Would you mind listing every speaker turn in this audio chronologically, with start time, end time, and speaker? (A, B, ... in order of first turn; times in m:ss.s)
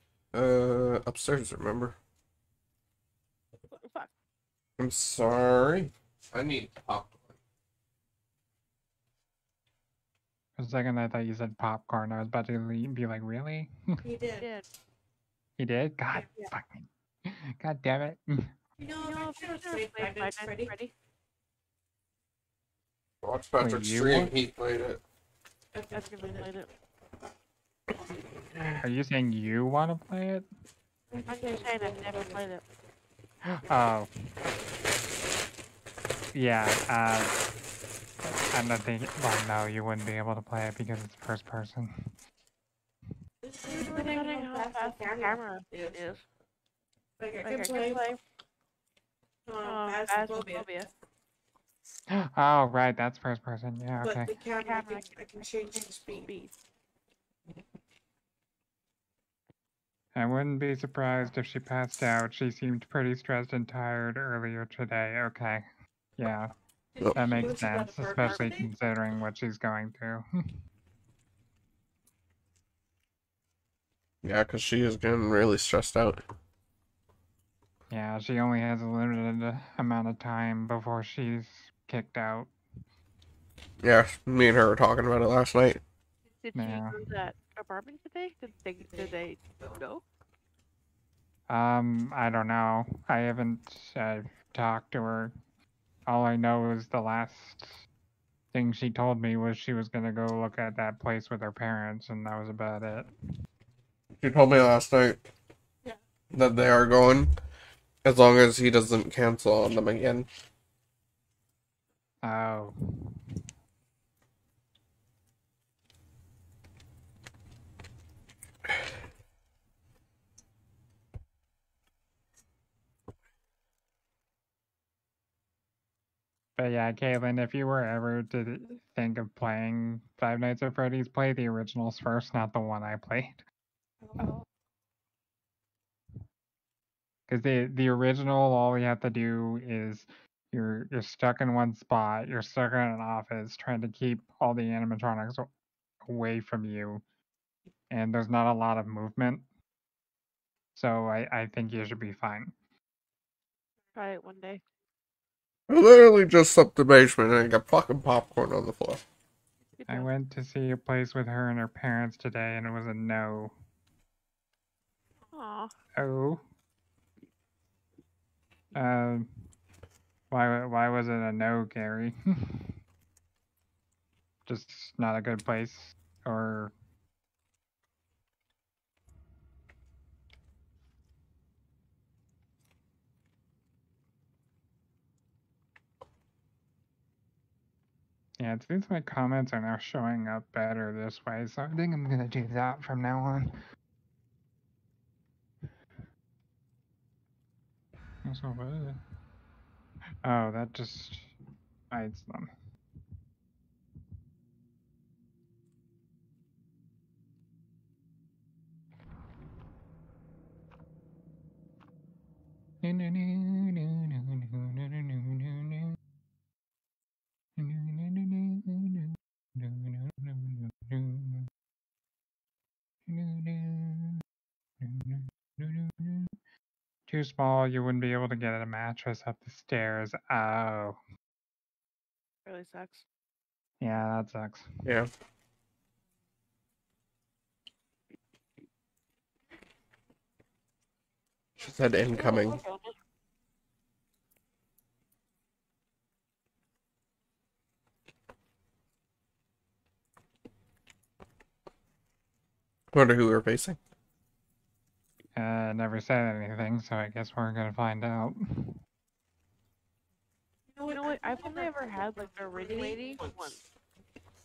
0:00.3-0:02.0 A
0:03.7-0:04.1 B
0:04.8-0:07.3 A
0:10.6-0:14.0 C
0:14.0-0:14.5 D
0:14.4-0:14.6 B
0:15.6-0:18.5 C
0:16.2-0:16.5 B
0:18.8-0:20.8 D
0:19.0-0:20.9 B
0:23.2-0:25.0 A
0:23.6-0:24.3 C
0:25.7-0:26.5 D
0:25.9-0:26.7 B
0:28.8-0:30.4 C
0:31.1-0:32.5 D
0:31.3-0:32.6 B
0:33.4-0:34.1 C
0:36.3-0:37.4 C
0:38.5-0:42.1 C
0:43.4-0:46.0 D
0:43.7-0:46.2 B
0:47.2-0:48.1 D
0:47.4-0:48.2 B
0:49.4-0:50.8 D
0:49.6-0:50.9 B
0:52.1-0:54.3 C
0:54.0-0:56.3 D
0:54.6-0:55.2 B
0:56.0-0:56.5 B
1:00.1-1:06.5 C
1:06.9-1:08.7 D
1:07.1-1:10.5 C
1:08.2-1:08.5 B
1:14.2-1:16.2 A
1:17.9-1:22.5 C
1:23.8-1:25.8 A
1:26.4-1:30.0 B
1:26.5-1:27.0 C
1:28.8-1:29.8 D
1:31.5-1:35.4 C
1:36.1-1:37.8 C
1:38.5-1:43.1 C
1:44.2-1:45.2 A
1:46.3-1:47.3 A
1:48.0-1:50.3 A
1:52.2-1:53.2 C
2:06.6-2:13.4 C
2:14.0-2:14.3 D
2:17.3-2:25.5 C
2:26.0-2:27.0 C
2:27.9-2:29.4 C
2:30.7-2:32.5 C
2:33.9-2:34.6 B
2:35.7-2:39.0 A
2:39.8-2:40.1 B
2:39.9-2:43.5 C
2:45.3-2:45.7 B
2:46.0-2:46.4 C
2:48.7-2:49.3 C
2:50.3-2:52.7 C
2:54.4-2:56.7 C
3:08.4-3:13.6 C
3:18.2-3:19.0 C
3:20.2-3:21.3 C
3:21.9-3:22.5 C
3:32.8-3:36.0 C
3:37.6-3:41.5 C
3:43.1-3:44.2 C
3:44.8-3:46.3 C
3:47.1-3:51.0 C
3:52.4-3:53.0 B
3:53.8-3:54.8 C
4:01.6-4:02.6 A
4:02.2-4:02.9 B
4:12.9-4:13.8 A
4:15.4-4:18.8 C
4:20.7-4:23.6 D
4:20.9-4:23.6 B